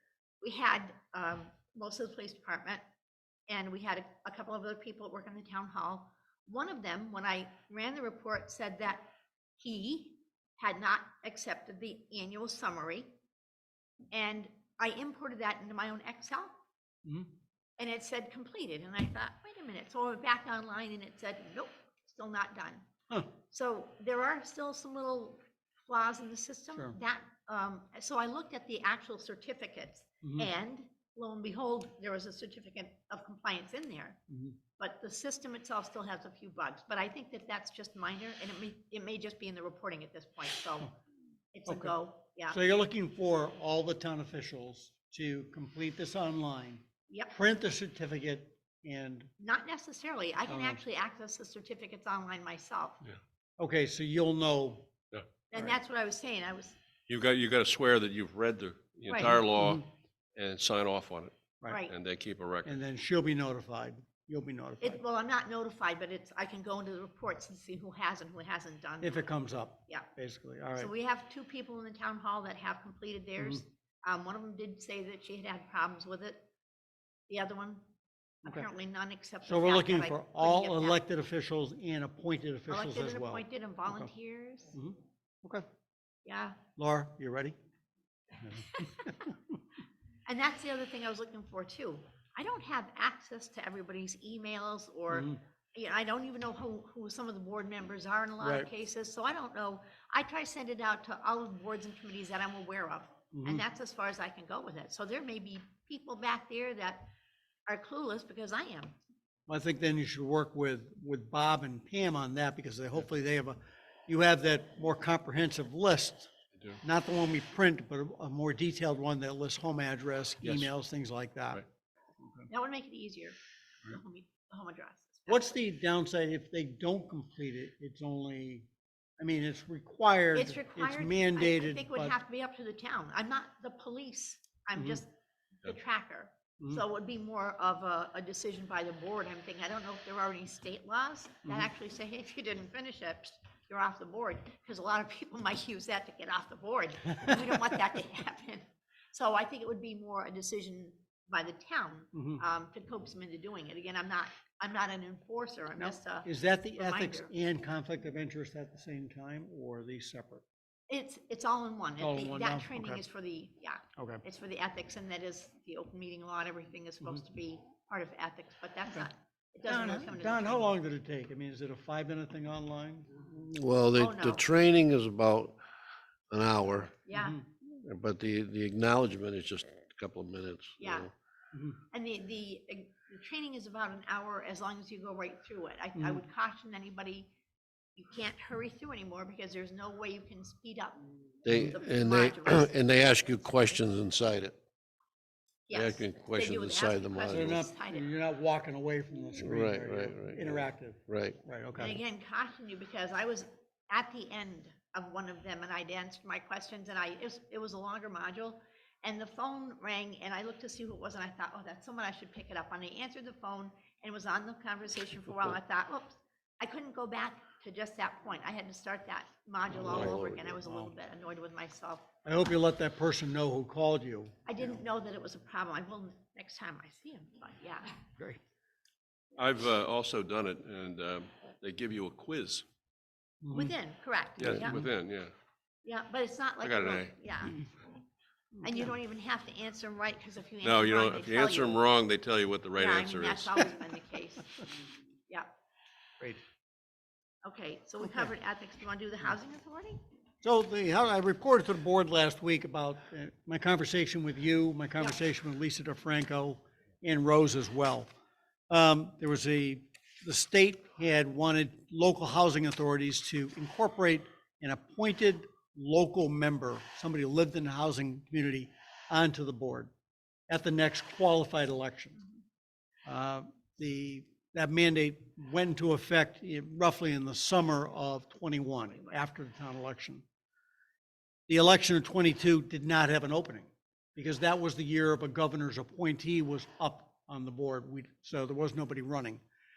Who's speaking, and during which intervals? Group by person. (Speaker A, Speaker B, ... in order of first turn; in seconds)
Speaker A: 0.4-2.8, 3.5-13.1, 14.1-16.5, 17.8-22.8, 23.5-34.2, 34.8-41.0, 41.5-42.6, 47.1-47.4, 49.4-53.0, 55.5-56.8, 59.1-59.4, 61.7-61.9, 64.8-69.3, 70.8-76.5, 77.3-77.8, 78.4-81.0, 82.7-84.8, 86.2-86.6, 88.7-89.1, 90.2-107.1, 107.7-109.0, 122.5-125.6, 130.3-135.1, 135.6-157.3, 160.9-170.7, 173.9-174.5, 177.1-177.4, 180.8-181.1, 181.9-187.3, 187.9-193.4, 195.7-198.0, 201.8-222.1, 224.4-228.0, 233.5-234.8, 235.8-237.6, 238.6-241.8, 242.8-244.6, 247.4-250.0
Speaker B: 17.0-17.3, 30.2-30.5, 34.3-34.6, 41.7-41.9, 42.5-49.3, 50.5-50.8, 53.6-54.9, 59.3-59.8, 62.7-65.0, 69.0-70.9, 79.4-84.1, 84.7-85.7, 86.8-87.5, 88.4-89.3, 95.1-95.4, 98.4-98.7, 103.3-103.6, 109.5-116.3, 116.8-121.6, 125.3-128.7, 129.2-132.2, 134.8-135.0, 152.1-152.4, 155.8-160.4, 162.0-163.0, 163.9-164.2, 169.7-173.2, 177.1-177.4, 181.5-181.8, 185.9-186.2, 191.5-191.8, 197.3-202.0, 219.8-220.0, 220.6-220.9, 222.2-224.6, 233.4-233.8, 238.6-238.9, 250.4-258.1, 258.7-269.9, 270.5-272.2, 273.1-280.2, 281.5-289.4
Speaker C: 57.1-61.4, 61.9-62.7, 120.4-120.7, 229.3-232.6, 234.4-235.3, 236.6-237.5, 240.6-243.7
Speaker D: 173.3-175.6, 176.3-177.0, 177.6-181.1, 191.4-194.6, 195.7-197.6, 199.4-201.4, 219.8-220.5